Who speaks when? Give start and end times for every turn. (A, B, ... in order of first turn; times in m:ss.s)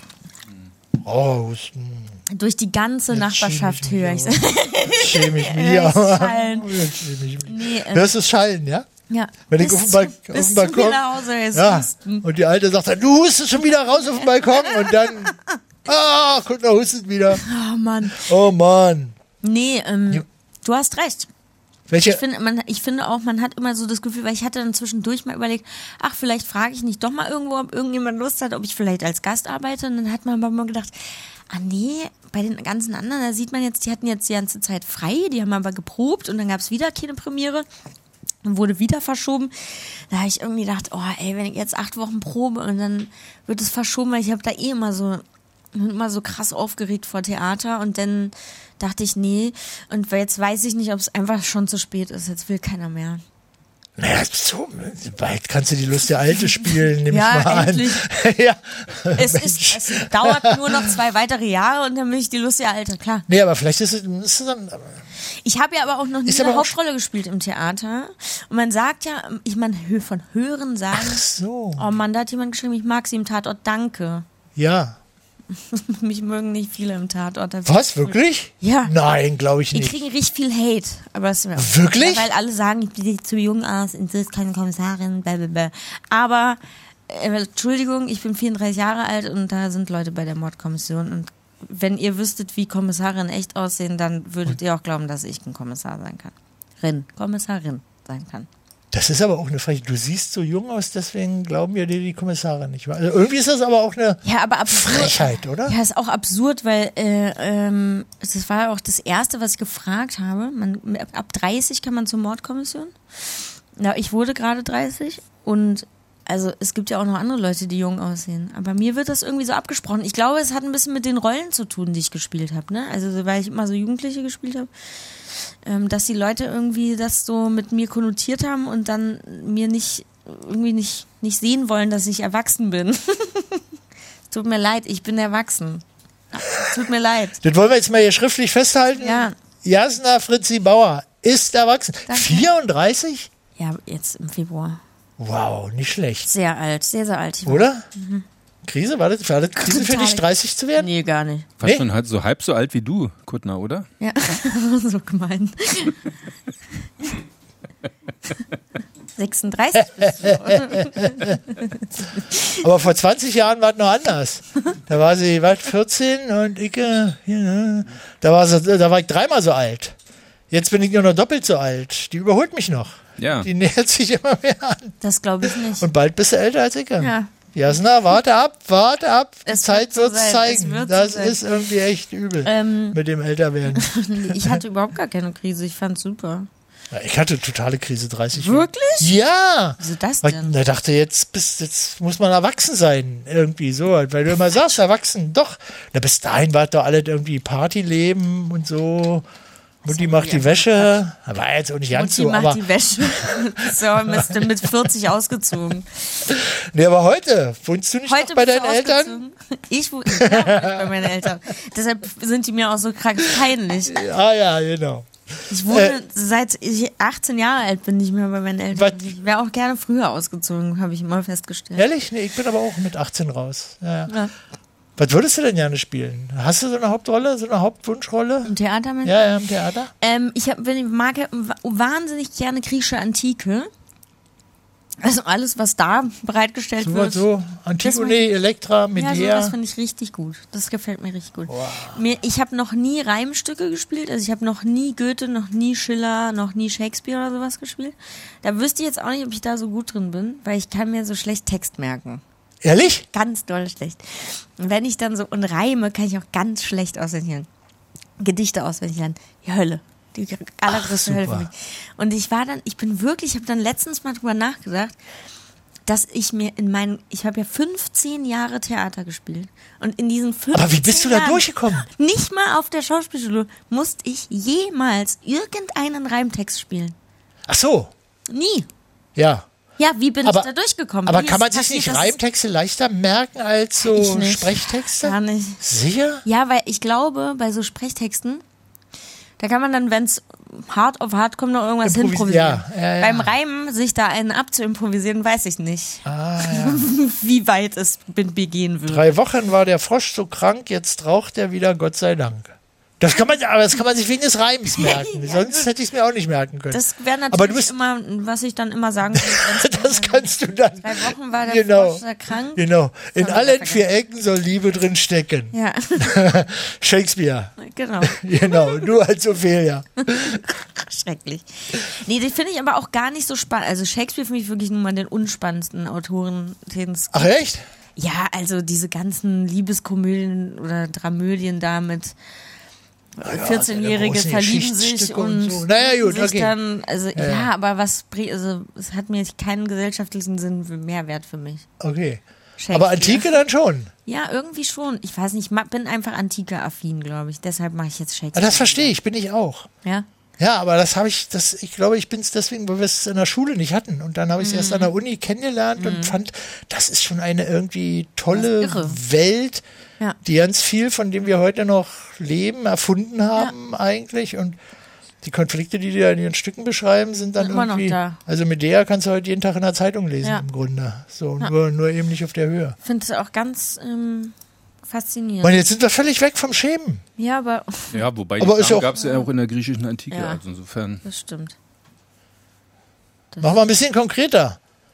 0:01.0-0:02.2 A
0:02.3-0:06.9 B
0:03.1-0:08.9 A
0:07.5-0:08.1 B
0:09.1-0:12.3 B
0:09.5-0:17.4 A
0:17.4-0:18.3 B
0:18.1-0:19.2 A
0:19.4-0:21.3 B
0:21.9-0:22.2 A
0:22.0-0:30.9 B
0:31.5-0:37.6 B
0:38.4-0:39.5 B
0:40.1-0:45.2 B
0:45.7-0:53.2 B
0:54.0-1:00.9 A
0:56.6-0:58.1 B
0:59.2-1:03.3 B
1:03.3-1:05.0 A
1:05.4-1:11.2 B
1:06.2-1:06.8 A
1:10.9-1:11.9 A
1:11.8-1:14.3 B
1:14.6-1:15.0 A
1:15.7-1:18.9 B
1:17.7-1:20.0 A
1:19.7-1:38.5 B
1:21.6-1:22.3 A
1:38.9-1:45.8 A
1:44.2-2:04.7 B
2:05.6-2:13.6 B
2:14.3-2:17.4 B
2:17.4-2:23.3 A
2:19.0-2:19.4 B
2:22.1-2:22.5 B
2:23.6-2:24.8 B
2:25.2-2:26.3 A
2:26.2-2:28.2 B
2:27.4-2:27.8 A
2:28.6-2:30.9 A
2:29.6-2:31.5 B
2:31.6-2:33.9 C
2:34.0-2:36.1 B
2:39.2-2:42.6 B
2:40.0-2:41.4 A
2:42.6-2:50.0 A
2:50.5-3:04.6 A
2:53.2-2:53.5 C
2:55.0-2:55.9 B
2:57.0-2:57.3 B
2:59.5-3:01.4 B
3:02.4-3:03.0 B
3:03.8-3:06.5 B
3:06.9-3:19.3 A
3:08.4-3:09.2 B
3:09.8-3:10.6 B
3:19.8-3:21.0 B
3:19.8-3:24.5 A
3:21.9-3:26.0 B
3:26.3-3:29.2 A
3:28.1-3:34.1 B
3:30.1-3:31.3 A
3:33.9-3:35.1 A
3:35.5-3:41.8 B
3:35.6-3:36.0 A
3:38.7-3:39.2 A
3:41.8-3:44.1 A
3:44.1-3:44.3 B
3:45.0-3:48.5 A
3:48.4-3:49.2 B
3:49.0-3:49.9 A
3:50.0-3:53.7 B
3:55.0-3:57.2 B
3:56.8-3:59.6 A
3:57.8-3:58.2 B
3:59.0-4:12.2 B
4:01.5-4:02.0 A
4:12.6-4:13.0 A
4:13.1-4:17.5 B
4:18.2-4:25.0 B
4:20.7-4:21.5 A
4:25.9-4:37.0 B
4:30.5-4:31.9 A
4:37.5-4:37.9 A
4:38.3-4:38.7 B
4:39.2-4:39.5 A
4:39.8-4:42.2 B
4:40.2-4:40.5 A
4:41.0-4:46.2 A
4:43.8-4:45.6 B
4:46.2-4:48.4 B
4:49.4-4:59.1 B
4:51.8-4:53.3 A
4:56.0-4:56.9 A
4:58.9-5:07.7 A
5:04.7-5:05.7 B
5:06.7-5:10.3 B
5:09.1-5:20.4 A
5:10.8-5:13.8 B
5:15.5-5:16.2 B
5:17.6-5:18.8 B
5:20.1-5:27.3 B
5:27.1-5:27.6 A
5:28.0-5:32.2 B
5:33.2-5:41.7 B
5:33.2-5:36.5 A
5:37.2-5:37.5 A
5:41.8-5:43.9 A
5:42.6-5:43.3 B
5:44.1-5:49.0 B
5:48.4-5:49.7 A
5:50.4-5:59.6 A
5:54.4-5:54.9 B
5:55.8-5:56.2 B
5:58.3-5:59.0 B
6:00.2-6:04.6 A
6:05.2-6:12.8 A
6:07.4-6:08.2 B
6:12.8-6:14.4 B
6:14.9-6:15.7 B
6:15.4-6:17.0 A
6:17.2-6:18.0 B
6:17.9-6:21.0 C
6:18.4-6:18.9 A
6:19.0-6:19.3 B
6:20.1-6:20.4 B
6:21.0-6:21.6 B
6:23.3-6:23.6 B
6:23.4-6:24.6 A